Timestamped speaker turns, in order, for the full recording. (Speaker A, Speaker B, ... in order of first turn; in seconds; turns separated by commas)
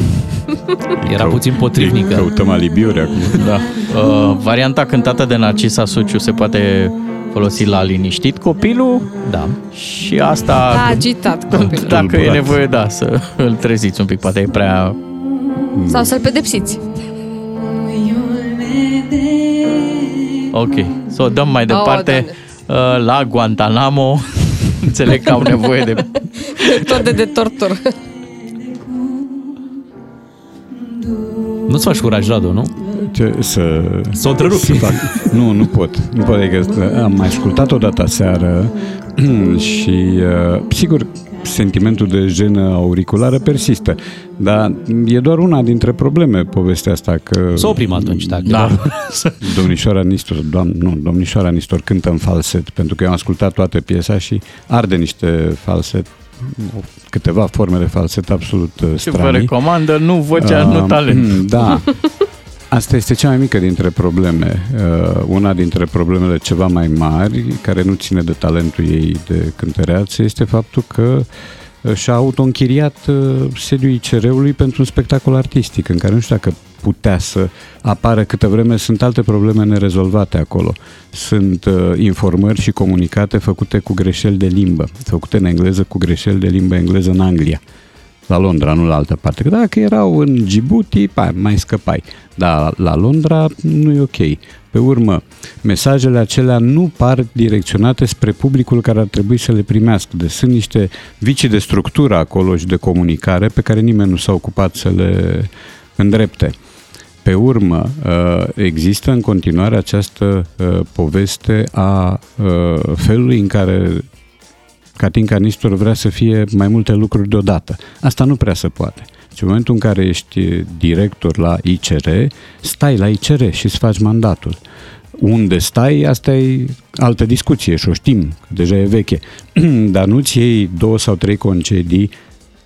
Speaker A: 0.9-3.5, Speaker B: 1.0-2.3, Speaker C: 3.4-9.1, Speaker B: 9.2-9.6, Speaker C: 9.7-15.0, Speaker D: 10.7-11.9, Speaker A: 11.6-12.6, Speaker A: 15.7-16.1, Speaker D: 15.9-16.8, Speaker C: 20.5-26.9, Speaker D: 21.7-22.3, Speaker D: 26.6-27.9, Speaker B: 31.6-32.8, Speaker A: 32.9-48.8, Speaker B: 34.1-35.3, Speaker B: 47.5-48.9, Speaker C: 48.5-49.6, Speaker A: 49.4-59.5, Speaker C: 59.0-61.4, Speaker A: 60.4-62.0, Speaker A: 62.7-71.3, Speaker A: 71.8-87.6, Speaker A: 88.3-106.5, Speaker A: 107.2-114.1, Speaker A: 115.0-124.6, Speaker A: 125.1-132.1